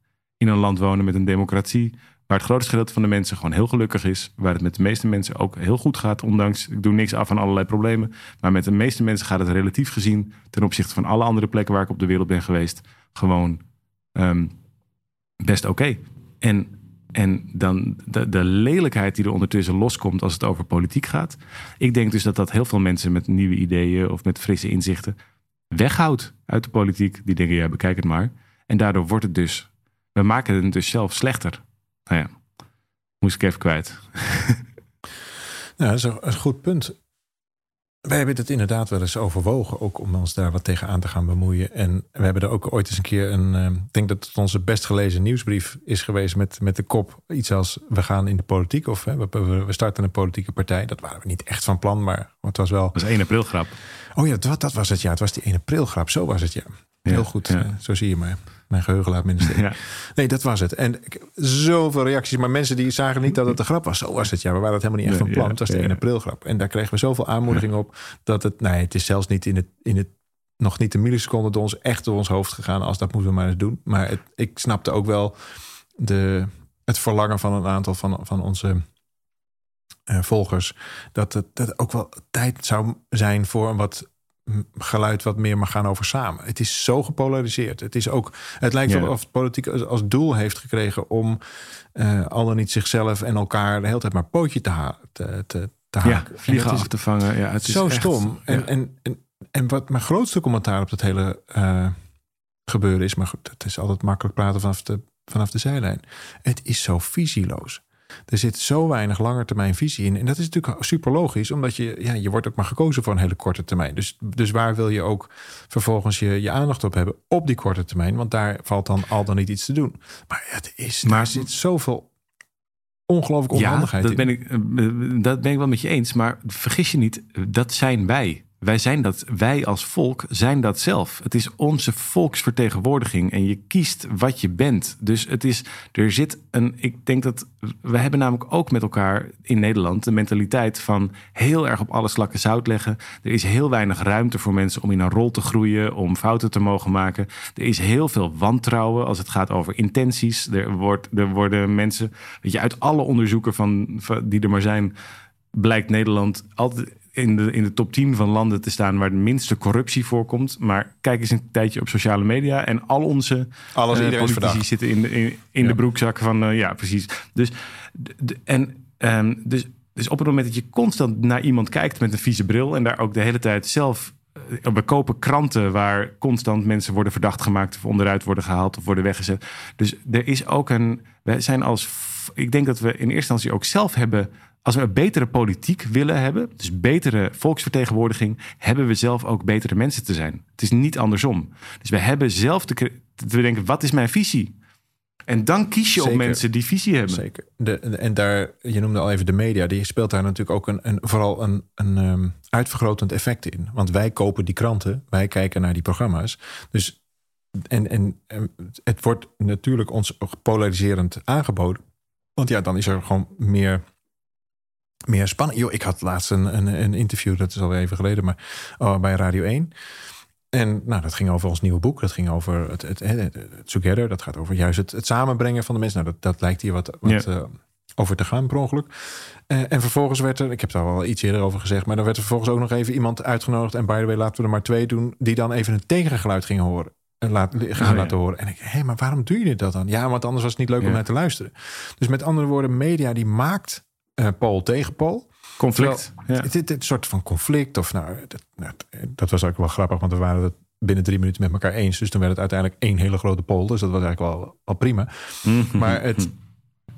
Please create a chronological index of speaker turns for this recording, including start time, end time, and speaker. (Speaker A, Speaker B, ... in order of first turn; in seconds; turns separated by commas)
Speaker A: 0.4-13.6, Speaker A: 14.2-14.5, Speaker A: 15.4-25.2, Speaker A: 25.7-32.4, Speaker A: 33.2-34.6, Speaker B: 35.8-37.0, Speaker B: 38.0-53.0, Speaker A: 53.0-53.8, Speaker B: 54.1-75.4, Speaker A: 57.0-57.7, Speaker A: 59.4-59.8, Speaker A: 65.0-66.0, Speaker B: 76.0-78.8, Speaker B: 80.1-91.4, Speaker A: 88.9-89.1, Speaker B: 91.9-96.9, Speaker A: 96.0-98.7, Speaker B: 97.6-102.0, Speaker B: 102.7-122.1, Speaker A: 121.0-121.4, Speaker B: 123.1-124.2, Speaker A: 123.5-154.9, Speaker A: 155.5-194.5, Speaker B: 163.8-164.6, Speaker A: 195.3-197.2, Speaker B: 196.0-196.4, Speaker B: 197.1-207.0, Speaker B: 207.6-211.8, Speaker B: 212.4-213.8, Speaker B: 215.1-219.7, Speaker B: 220.5-256.3, Speaker A: 237.8-238.2, Speaker A: 245.6-246.5, Speaker A: 255.4-256.3